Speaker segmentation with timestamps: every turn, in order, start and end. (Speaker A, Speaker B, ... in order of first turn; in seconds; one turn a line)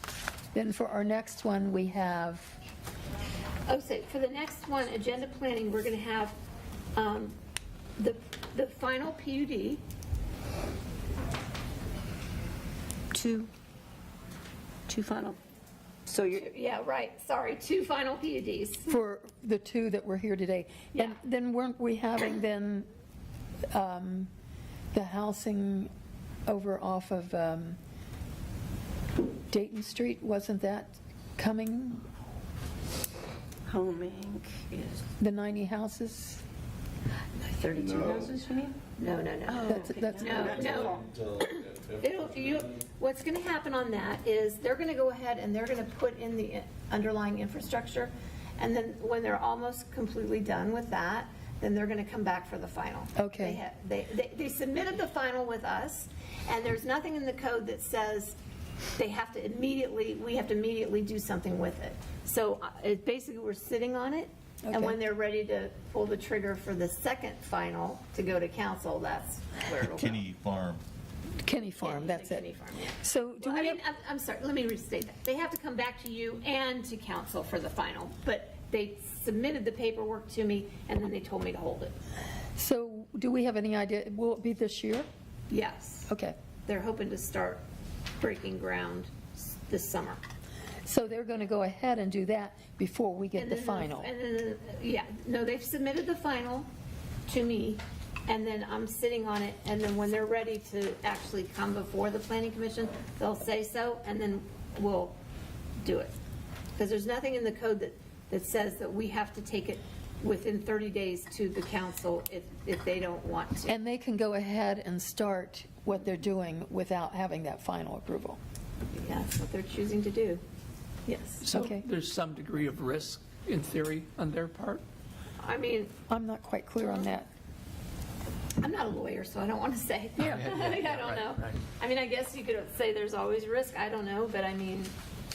Speaker A: 0.5-2.5
Speaker B: 3.7-6.3
Speaker B: 6.9-7.3
Speaker B: 8.0-9.8
Speaker C: 13.1-13.5
Speaker C: 14.9-15.4
Speaker C: 16.1-16.4
Speaker B: 16.4-18.9
Speaker A: 18.9-22.9
Speaker A: 23.7-24.3
Speaker A: 24.9-25.9
Speaker A: 26.4-27.8
Speaker A: 29.5-32.0
Speaker C: 33.7-35.0
Speaker A: 35.2-36.4
Speaker C: 37.4-38.7
Speaker D: 37.8-38.2
Speaker B: 39.0-58.4
Speaker C: 39.5-41.0
Speaker A: 39.7-40.5
Speaker D: 40.4-42.6
Speaker A: 53.1-53.6
Speaker B: 59.0-70.3
Speaker A: 64.7-65.0
Speaker D: 69.8-70.8
Speaker A: 71.4-72.4
Speaker B: 71.7-81.9
Speaker A: 73.0-73.8
Speaker A: 82.5-85.0
Speaker B: 85.5-86.1
Speaker A: 86.1-86.3
Speaker B: 86.7-87.6
Speaker B: 88.2-90.2
Speaker A: 90.8-94.1
Speaker B: 93.4-96.7
Speaker B: 97.3-105.2
Speaker B: 105.8-106.1
Speaker B: 106.8-113.8
Speaker A: 113.7-118.4
Speaker B: 118.9-120.4
Speaker B: 121.1-121.5
Speaker E: 121.4-124.8
Speaker A: 121.5-121.8
Speaker B: 125.4-125.9
Speaker A: 126.1-127.3
Speaker B: 126.8-127.1
Speaker B: 128.6-134.9
Speaker E: 130.2-131.2